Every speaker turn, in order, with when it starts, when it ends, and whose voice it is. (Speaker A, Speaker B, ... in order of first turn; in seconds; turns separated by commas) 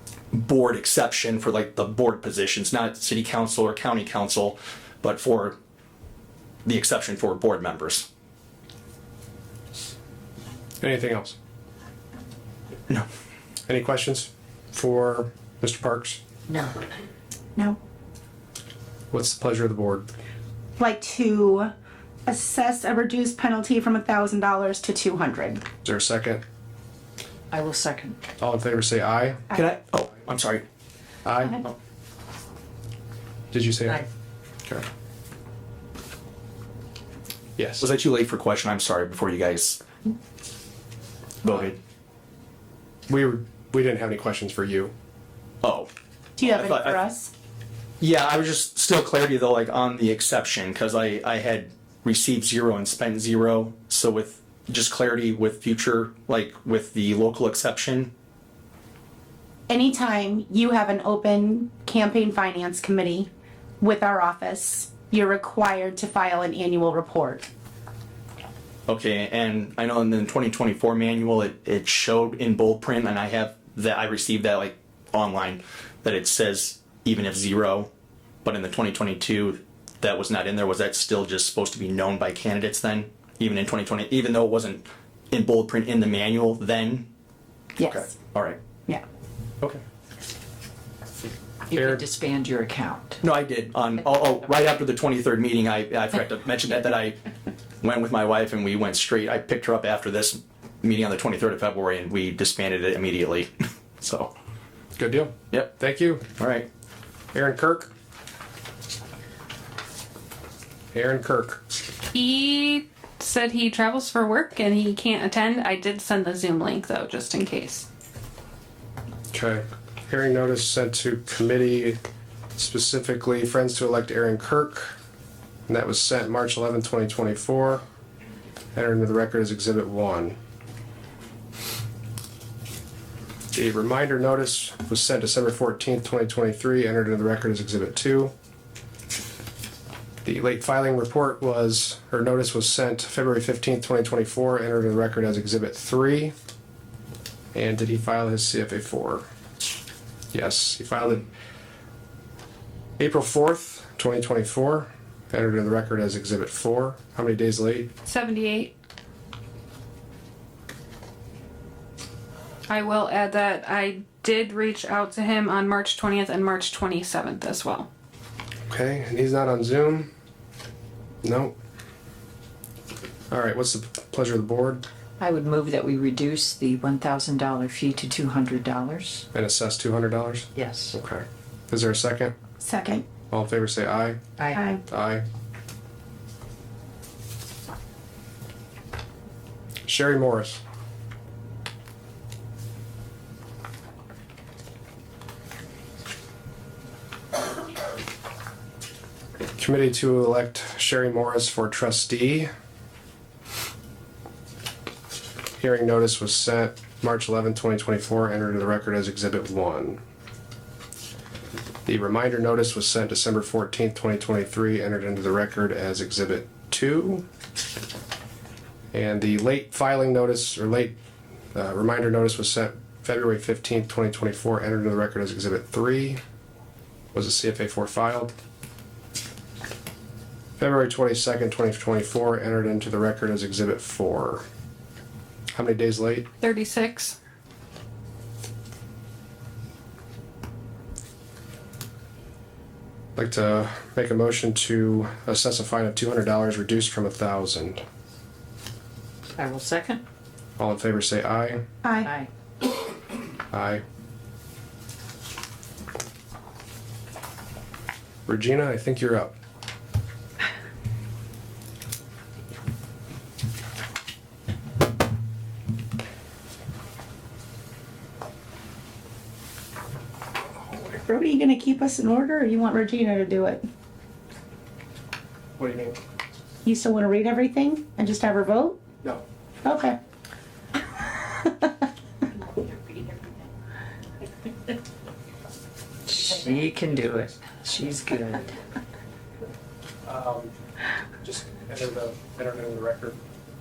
Speaker A: 0.3-5.6, Speaker A: 6.7-8.1, Speaker B: 10.8-11.4, Speaker B: 13.7-16.2, Speaker C: 16.5-16.8, Speaker B: 19.1-20.1, Speaker D: 20.8-21.7, Speaker D: 22.3-25.6, Speaker B: 25.8-26.4, Speaker C: 27.5-28.2, Speaker B: 28.4-29.4, Speaker A: 29.5-30.6, Speaker B: 31.2-31.6, Speaker B: 33.5-34.0, Speaker B: 37.6-37.9, Speaker A: 37.8-39.8, Speaker A: 41.4-41.8, Speaker B: 43.1-44.9, Speaker A: 45.6-45.9, Speaker D: 46.4-47.3, Speaker A: 46.4-47.0, Speaker A: 48.0-58.1, Speaker D: 59.7-63.3, Speaker D: 63.8-67.5, Speaker A: 68.9-77.9, Speaker A: 78.4-87.1, Speaker D: 87.8-88.1, Speaker A: 87.8-88.6, Speaker C: 91.7-93.2, Speaker B: 91.8-92.0, Speaker A: 93.2-97.2, Speaker A: 97.8-104.3, Speaker B: 105.0-106.2, Speaker A: 106.4-106.7, Speaker B: 107.3-107.9, Speaker B: 110.9-111.6, Speaker E: 112.1-117.9, Speaker B: 119.3-122.0, Speaker B: 122.6-124.9, Speaker B: 125.7-127.8, Speaker B: 128.8-130.4, Speaker B: 133.5-138.3, Speaker B: 140.2-146.3, Speaker B: 147.5-149.2, Speaker B: 150.3-151.3, Speaker B: 153.0-157.9, Speaker E: 158.1-158.7, Speaker E: 162.7-167.9, Speaker B: 168.7-170.1, Speaker B: 171.2-171.5, Speaker B: 173.3-174.8, Speaker C: 175.2-179.2, Speaker B: 179.3-182.3, Speaker C: 180.6-180.9, Speaker D: 182.6-183.1, Speaker B: 183.3-184.2, Speaker C: 184.4-184.7, Speaker D: 184.5-184.8, Speaker B: 184.9-185.2, Speaker B: 189.9-190.6, Speaker B: 199.6-202.5, Speaker B: 205.6-210.0, Speaker B: 211.9-217.2, Speaker B: 218.9-220.9, Speaker B: 221.5-226.2, Speaker B: 227.1-228.3, Speaker B: 230.6-234.4, Speaker B: 235.5-236.3, Speaker E: 236.4-237.2, Speaker B: 243.2-247.8, Speaker C: 249.4-250.0, Speaker B: 250.6-251.6, Speaker D: 251.8-252.1, Speaker C: 252.0-252.3, Speaker B: 253.5-253.8, Speaker B: 258.3-259.4, Speaker D: 271.0-273.6, Speaker B: 275.6-276.0, Speaker D: 276.6-278.8, Speaker D: 279.6-280.0, Speaker D: 281.2-281.7, Speaker C: 286.1-288.5, Speaker B: 290.1-290.5, Speaker B: 291.2-293.2